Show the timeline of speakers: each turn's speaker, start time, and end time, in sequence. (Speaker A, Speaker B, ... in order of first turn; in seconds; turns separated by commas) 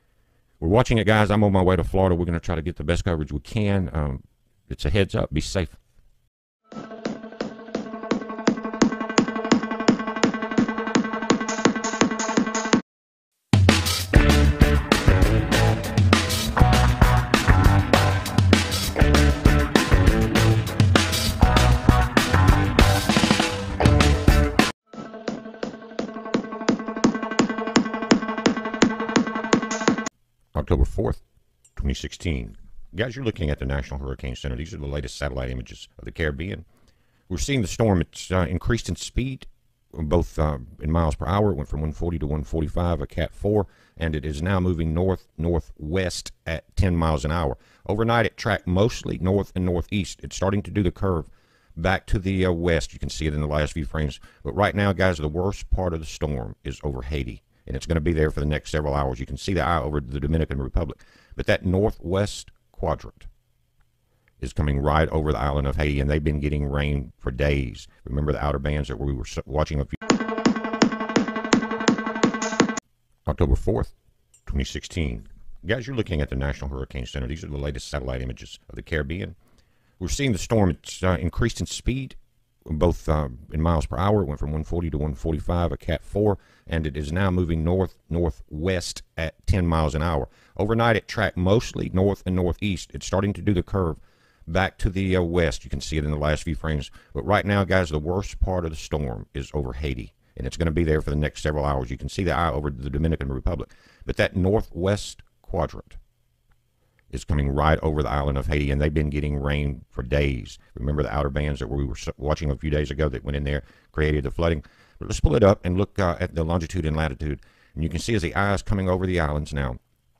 Speaker A: 0.6-5.8, Speaker A: 30.6-31.2, Speaker A: 31.8-36.6, Speaker A: 37.3-63.3, Speaker A: 64.4-70.0, Speaker A: 73.3-73.9, Speaker A: 74.5-79.4, Speaker A: 80.0-106.0, Speaker A: 107.1-119.8